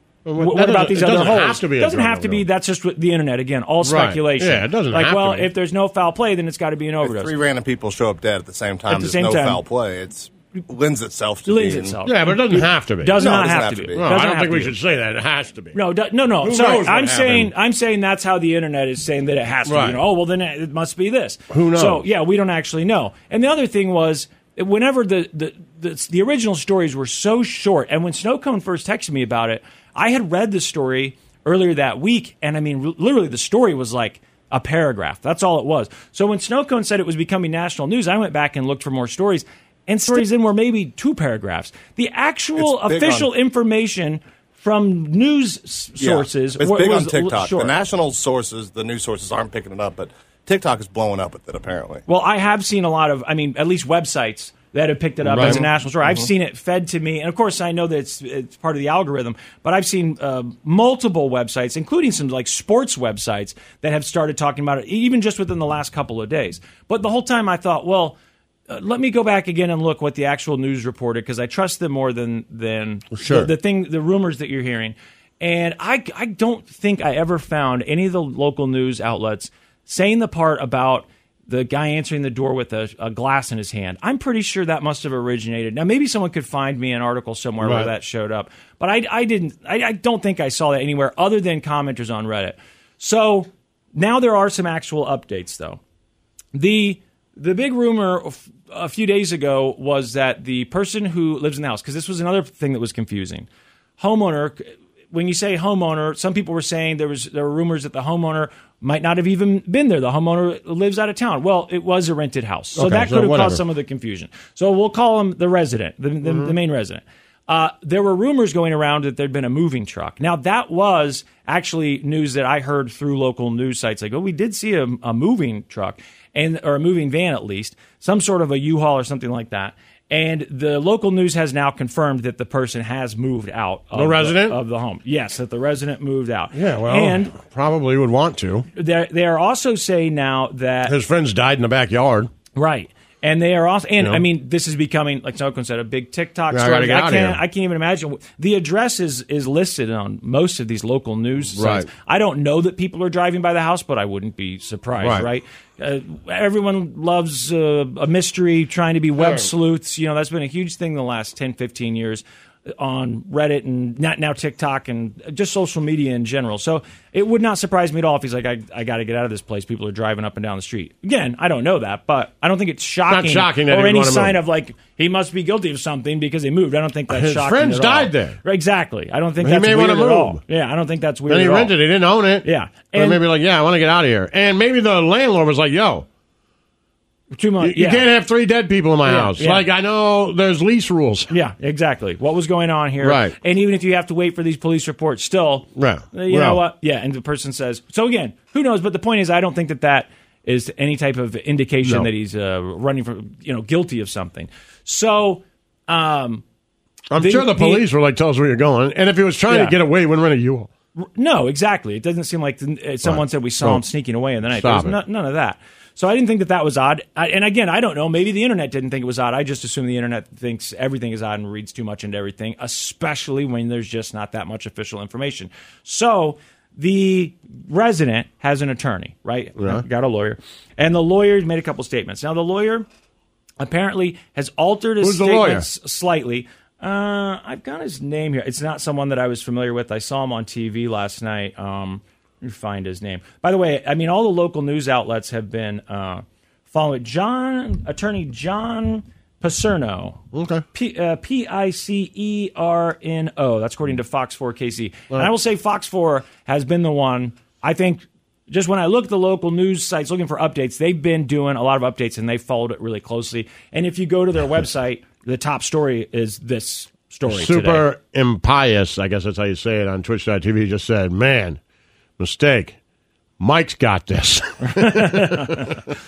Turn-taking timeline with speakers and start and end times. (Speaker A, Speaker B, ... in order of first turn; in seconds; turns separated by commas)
Speaker A: 0.2-2.4, Speaker B: 0.4-7.3, Speaker A: 3.8-5.5, Speaker C: 7.0-12.0, Speaker B: 8.9-9.6, Speaker B: 11.5-14.8, Speaker A: 12.1-13.4, Speaker C: 13.2-14.1, Speaker A: 13.9-15.8, Speaker B: 15.7-47.7, Speaker A: 16.4-17.5, Speaker A: 19.7-20.0, Speaker A: 21.5-22.0, Speaker C: 42.6-43.3, Speaker C: 46.0-52.0, Speaker B: 52.1-68.2, Speaker A: 55.3-55.6, Speaker C: 55.4-56.3, Speaker B: 68.7-95.8, Speaker A: 73.2-73.5, Speaker A: 87.6-87.9, Speaker B: 96.5-103.5, Speaker B: 104.0-137.3, Speaker A: 112.8-113.6, Speaker A: 116.2-116.5, Speaker A: 133.9-134.6, Speaker A: 136.5-138.7, Speaker B: 138.8-140.9, Speaker A: 140.9-142.3, Speaker B: 142.6-181.7, Speaker A: 146.5-147.4, Speaker A: 151.6-151.9, Speaker A: 155.0-155.3, Speaker A: 159.2-159.5, Speaker A: 173.1-174.4, Speaker A: 177.1-178.4, Speaker A: 179.4-180.4, Speaker A: 181.3-186.1, Speaker B: 182.4-183.2, Speaker B: 187.3-188.1, Speaker A: 187.6-191.3, Speaker B: 189.1-189.7, Speaker B: 191.3-206.4, Speaker A: 193.0-193.3, Speaker A: 195.8-196.6, Speaker A: 207.1-210.7, Speaker B: 207.2-207.8, Speaker B: 209.5-209.8, Speaker B: 211.0-232.9, Speaker A: 213.0-213.8, Speaker A: 214.5-215.0, Speaker A: 229.6-229.8, Speaker B: 233.6-250.2, Speaker A: 235.0-235.7, Speaker A: 250.3-250.7, Speaker B: 250.7-267.9, Speaker A: 267.3-271.6, Speaker A: 272.2-272.8, Speaker A: 273.4-275.8, Speaker B: 274.6-275.8